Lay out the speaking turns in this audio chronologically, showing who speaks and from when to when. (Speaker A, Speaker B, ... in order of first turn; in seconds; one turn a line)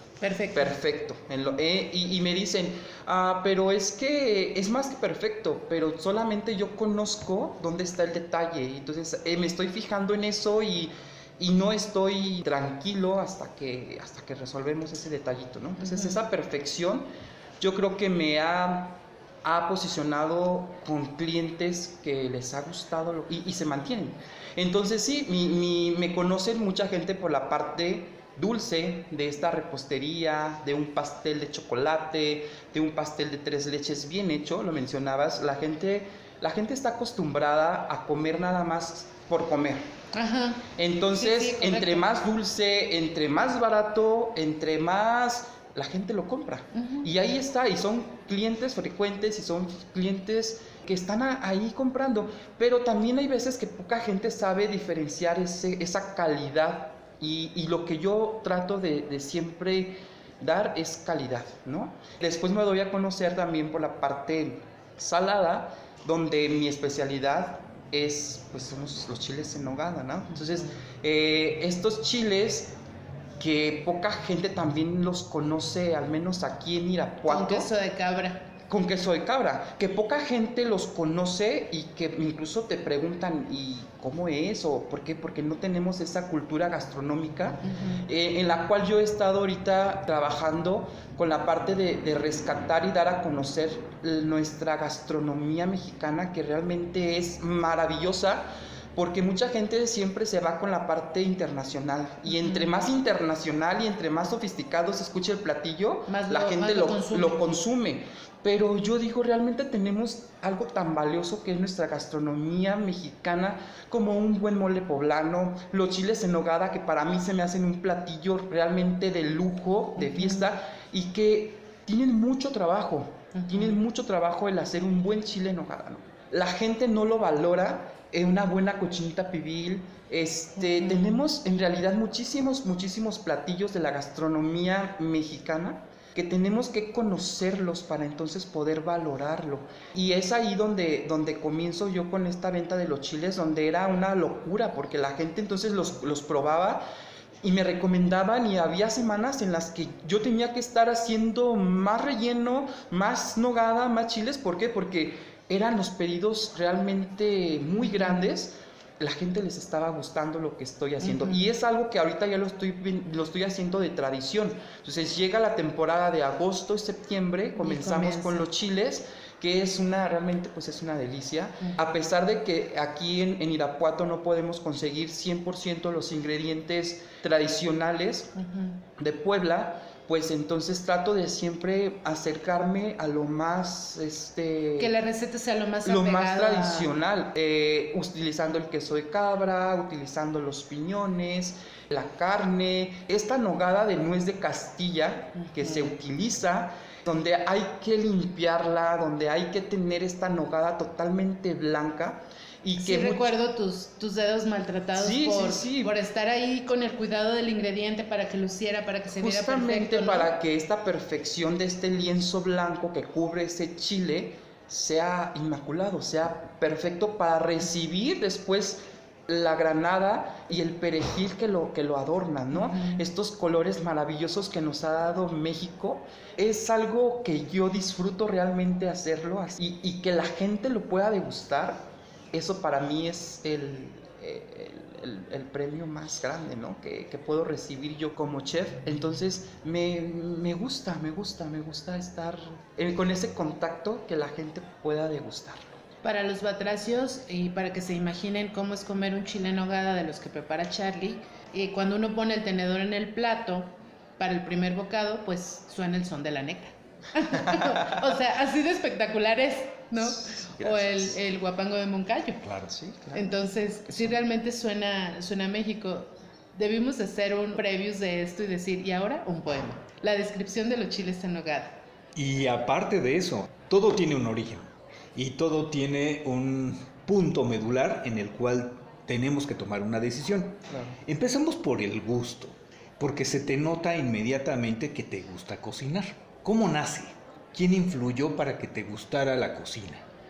Speaker A: 0.2-0.8
Speaker B: 0.5-17.1
Speaker A: 15.8-16.2
Speaker B: 17.6-39.9
Speaker A: 40.1-42.0
Speaker B: 40.8-72.8
Speaker A: 46.7-47.1
Speaker B: 73.4-77.7
Speaker A: 77.3-78.5
Speaker B: 78.7-146.8
Speaker A: 87.6-88.1
Speaker A: 102.3-102.7
Speaker A: 106.1-107.5
Speaker A: 120.0-120.5
Speaker A: 123.3-123.8
Speaker A: 130.6-131.2
Speaker B: 147.4-178.3
Speaker A: 157.8-158.2
Speaker A: 161.0-161.5
Speaker A: 167.6-168.5
Speaker A: 178.4-178.8
Speaker B: 179.0-185.0
Speaker A: 184.8-186.9
Speaker B: 185.8-203.3
Speaker A: 195.4-195.9
Speaker A: 202.8-210.3
Speaker B: 204.9-206.0
Speaker B: 209.2-245.8
Speaker A: 222.5-223.1
Speaker A: 246.0-262.4
Speaker B: 257.4-258.0
Speaker B: 260.0-261.2
Speaker C: 262.4-262.7
Speaker B: 262.7-264.2
Speaker A: 263.1-271.8
Speaker C: 272.1-290.0
Speaker B: 280.7-281.0